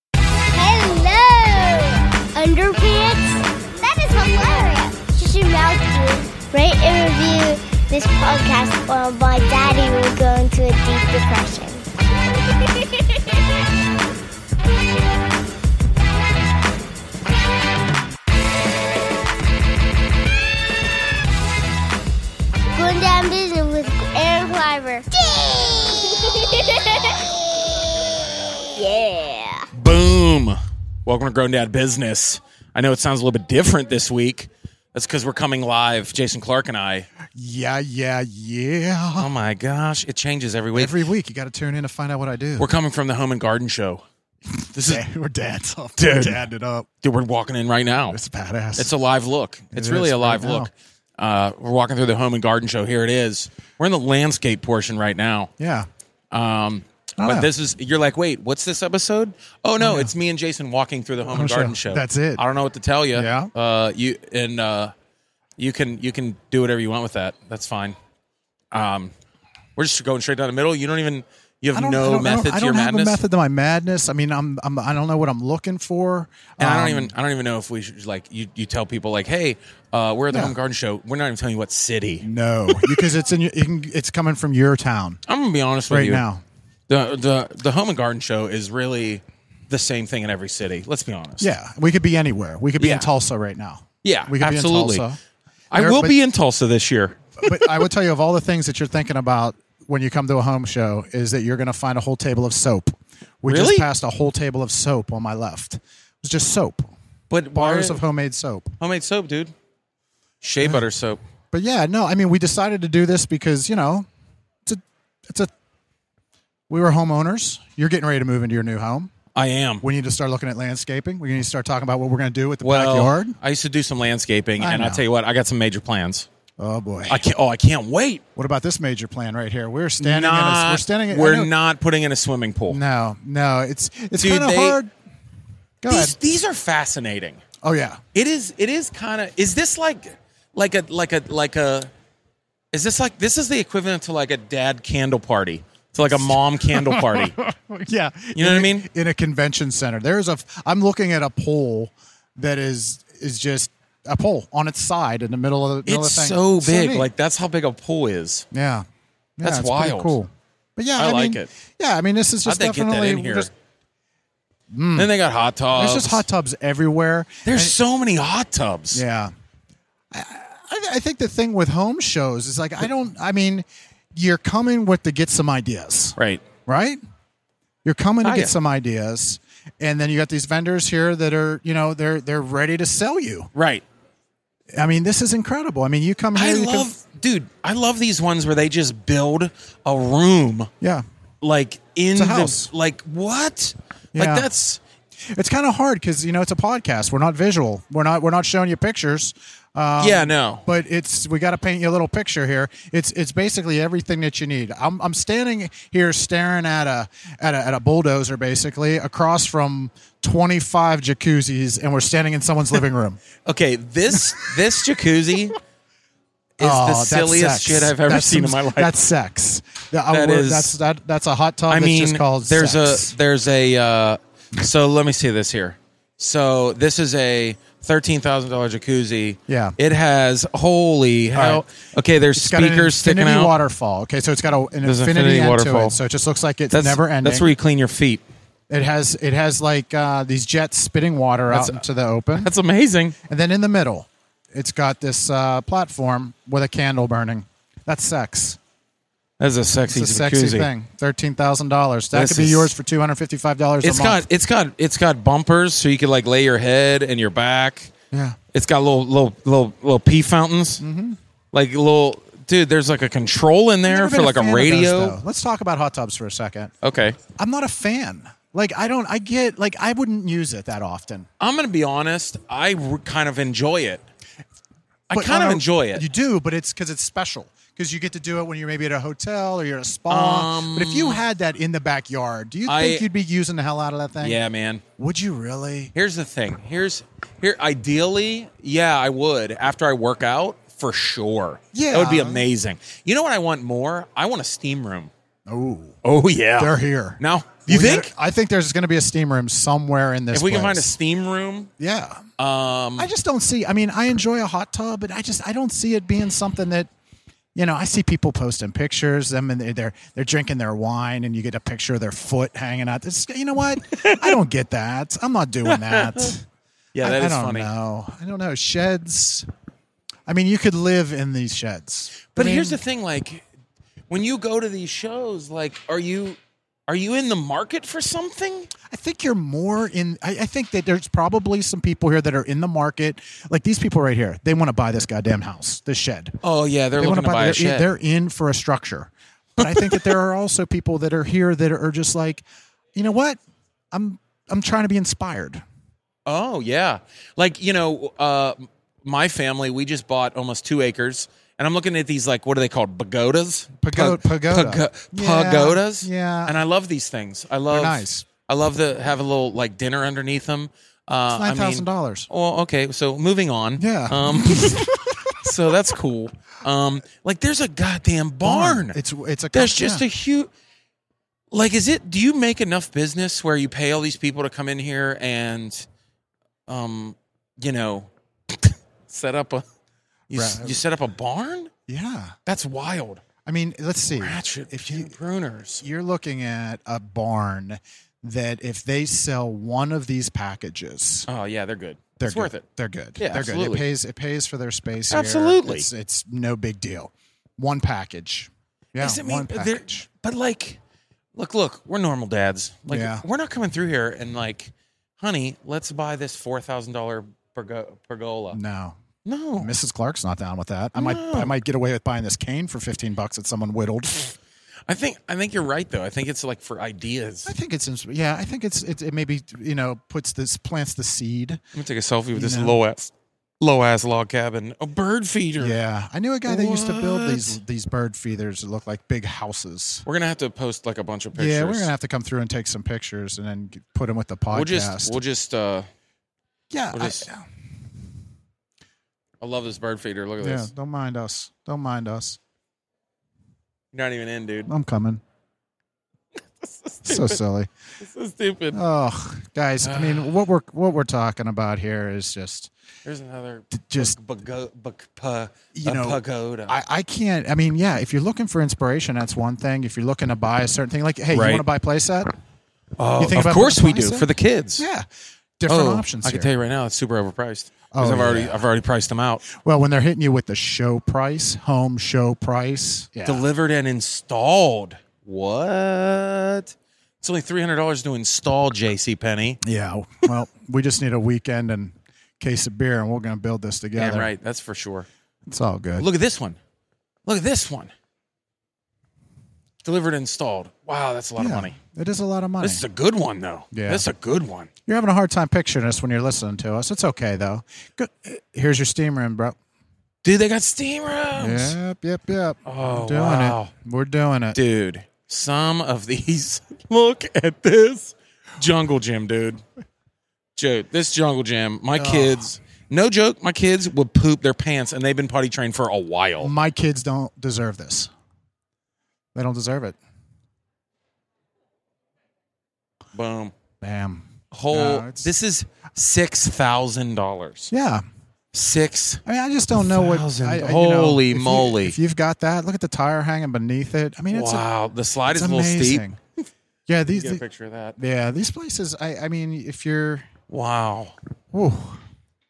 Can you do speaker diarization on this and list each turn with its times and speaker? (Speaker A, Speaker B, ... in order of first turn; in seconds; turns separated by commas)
Speaker A: 0.5-11.9, Speaker A: 12.6-13.2, Speaker A: 22.8-27.7, Speaker A: 28.6-29.7, Speaker B: 29.7-37.1, Speaker C: 37.3-39.3, Speaker B: 39.2-40.9, Speaker C: 40.7-42.7, Speaker B: 42.6-44.0, Speaker B: 44.7-45.0, Speaker C: 44.7-46.9, Speaker B: 46.0-46.4, Speaker B: 47.0-48.2, Speaker C: 48.1-48.9, Speaker B: 48.8-55.5, Speaker C: 49.8-50.7, Speaker C: 55.6-55.9, Speaker B: 56.3-64.9, Speaker C: 57.2-57.5, Speaker C: 59.8-60.1, Speaker C: 61.3-62.4, Speaker C: 63.1-63.5, Speaker B: 65.6-68.0, Speaker B: 68.7-69.1, Speaker B: 69.8-73.2, Speaker C: 71.7-77.1, Speaker B: 76.6-82.2, Speaker C: 82.2-85.2, Speaker B: 85.3-86.2, Speaker C: 85.9-86.4, Speaker B: 86.9-91.5, Speaker C: 91.4-95.2, Speaker B: 92.8-93.1, Speaker B: 94.0-95.1, Speaker B: 95.7-97.8, Speaker C: 95.7-96.2, Speaker C: 97.4-106.9, Speaker B: 103.5-103.9, Speaker B: 107.3-108.0, Speaker C: 107.5-108.7, Speaker B: 108.8-109.5, Speaker B: 110.4-111.2, Speaker C: 111.5-114.1, Speaker C: 114.7-115.5, Speaker C: 116.7-119.1, Speaker B: 119.3-119.8, Speaker C: 119.8-123.4, Speaker B: 122.6-126.3, Speaker C: 124.6-125.0, Speaker C: 126.6-127.2, Speaker B: 127.1-128.2, Speaker C: 128.4-131.5, Speaker B: 130.0-132.8, Speaker C: 132.7-134.9, Speaker B: 134.2-134.8, Speaker C: 135.8-136.2, Speaker B: 135.9-137.4, Speaker C: 137.6-138.0, Speaker B: 138.1-141.9, Speaker B: 142.7-147.4, Speaker C: 146.1-157.1, Speaker B: 148.3-148.9, Speaker B: 155.9-158.5, Speaker C: 158.5-158.9, Speaker C: 159.4-163.5, Speaker B: 159.4-160.2, Speaker B: 161.0-161.5, Speaker B: 162.4-163.5, Speaker C: 164.7-165.1, Speaker B: 165.0-166.2, Speaker C: 165.7-167.8, Speaker B: 167.4-169.0, Speaker C: 168.9-169.3, Speaker C: 170.1-177.0, Speaker B: 176.2-176.4, Speaker C: 177.8-183.5, Speaker B: 178.2-178.5, Speaker B: 183.6-183.8, Speaker C: 184.7-186.9, Speaker B: 186.3-190.7, Speaker B: 191.4-194.8, Speaker C: 192.2-192.7, Speaker C: 194.1-194.5, Speaker C: 195.2-213.2, Speaker B: 200.0-200.7, Speaker B: 213.4-215.6, Speaker B: 216.6-218.9, Speaker C: 216.6-223.1, Speaker B: 220.1-220.8, Speaker B: 221.7-233.6, Speaker C: 229.5-229.8, Speaker C: 231.3-231.7, Speaker C: 232.3-237.5, Speaker B: 234.8-236.0, Speaker B: 236.7-238.2, Speaker C: 238.7-242.5, Speaker B: 241.5-243.2, Speaker C: 243.2-248.6, Speaker B: 249.4-250.7, Speaker C: 249.9-254.2, Speaker B: 252.1-252.7, Speaker B: 253.8-257.9, Speaker C: 258.1-258.4, Speaker B: 258.5-260.8, Speaker C: 260.8-261.2, Speaker B: 261.5-265.2, Speaker C: 263.9-266.7, Speaker B: 266.8-267.2, Speaker C: 267.3-271.3, Speaker B: 271.4-274.0, Speaker B: 275.1-276.1, Speaker C: 275.1-284.4, Speaker B: 280.1-281.2, Speaker B: 282.7-283.1, Speaker B: 284.2-284.8, Speaker C: 285.0-285.9, Speaker B: 285.9-295.1, Speaker C: 291.7-292.5, Speaker C: 295.5-296.0, Speaker B: 296.0-298.1, Speaker C: 296.6-301.0, Speaker B: 300.3-301.7, Speaker C: 301.8-302.2, Speaker B: 302.4-303.1, Speaker C: 303.0-306.9, Speaker C: 307.6-316.4, Speaker B: 313.9-314.3, Speaker B: 315.7-316.4, Speaker B: 316.9-317.7, Speaker C: 317.0-319.5, Speaker C: 320.3-322.8, Speaker B: 322.3-323.4, Speaker B: 324.1-328.7, Speaker C: 328.9-336.4, Speaker B: 336.4-337.9, Speaker C: 337.0-343.4, Speaker B: 339.6-340.2, Speaker C: 343.9-345.6, Speaker B: 346.3-369.0, Speaker C: 353.8-356.6, Speaker C: 357.7-358.3, Speaker C: 361.3-362.3, Speaker C: 363.8-365.8, Speaker C: 368.4-370.1, Speaker B: 369.5-370.5, Speaker B: 371.5-375.9, Speaker B: 376.7-379.6, Speaker B: 380.3-381.7, Speaker C: 380.3-380.8, Speaker C: 381.9-382.4, Speaker B: 382.5-383.2, Speaker C: 383.4-385.2, Speaker B: 384.1-385.8, Speaker C: 385.8-391.3, Speaker B: 391.3-392.6, Speaker C: 392.2-400.1, Speaker B: 393.2-393.8, Speaker B: 395.1-395.9, Speaker B: 399.0-400.8, Speaker B: 401.4-408.6, Speaker C: 402.9-403.2, Speaker C: 408.5-409.0, Speaker B: 409.2-409.7, Speaker C: 409.6-414.4, Speaker B: 410.9-411.5, Speaker B: 414.9-417.5, Speaker C: 417.5-421.6, Speaker B: 421.7-425.8, Speaker C: 422.3-422.8, Speaker C: 425.6-430.1, Speaker B: 426.5-427.6, Speaker B: 430.1-431.9, Speaker C: 431.3-435.2, Speaker B: 434.5-435.9, Speaker C: 436.7-437.5, Speaker B: 436.9-437.3, Speaker B: 439.4-440.7, Speaker C: 440.4-442.4, Speaker B: 443.9-444.7, Speaker C: 444.7-445.2, Speaker B: 446.6-447.4, Speaker C: 447.1-447.7, Speaker B: 448.0-448.8, Speaker C: 448.7-452.7, Speaker B: 449.8-450.3, Speaker B: 453.1-456.8, Speaker C: 453.7-454.2, Speaker C: 455.7-462.3, Speaker B: 461.3-461.6, Speaker B: 463.0-464.9, Speaker C: 463.2-465.1, Speaker C: 465.6-466.5, Speaker B: 465.7-469.4, Speaker C: 467.9-468.6, Speaker C: 469.4-473.4, Speaker B: 473.3-479.6, Speaker C: 479.6-484.3, Speaker B: 484.0-485.1, Speaker C: 485.5-486.1, Speaker B: 486.0-486.6, Speaker B: 487.3-487.9, Speaker B: 489.8-491.8, Speaker C: 491.4-492.8, Speaker B: 492.6-494.7, Speaker C: 493.7-494.1, Speaker C: 494.9-499.6, Speaker B: 500.2-501.8, Speaker C: 501.4-504.6, Speaker B: 502.6-503.7, Speaker B: 504.6-509.6, Speaker B: 510.6-516.5, Speaker C: 511.9-512.5, Speaker C: 516.4-518.1, Speaker C: 519.4-520.0, Speaker B: 523.1-523.5, Speaker C: 523.8-525.3, Speaker B: 524.5-527.7, Speaker C: 527.7-528.0, Speaker B: 528.5-529.2, Speaker C: 529.3-534.6, Speaker B: 529.7-532.0, Speaker B: 534.3-536.1, Speaker C: 535.3-536.2, Speaker C: 536.9-537.4, Speaker B: 537.1-538.0, Speaker C: 538.0-540.3, Speaker B: 540.5-541.2, Speaker C: 541.5-542.0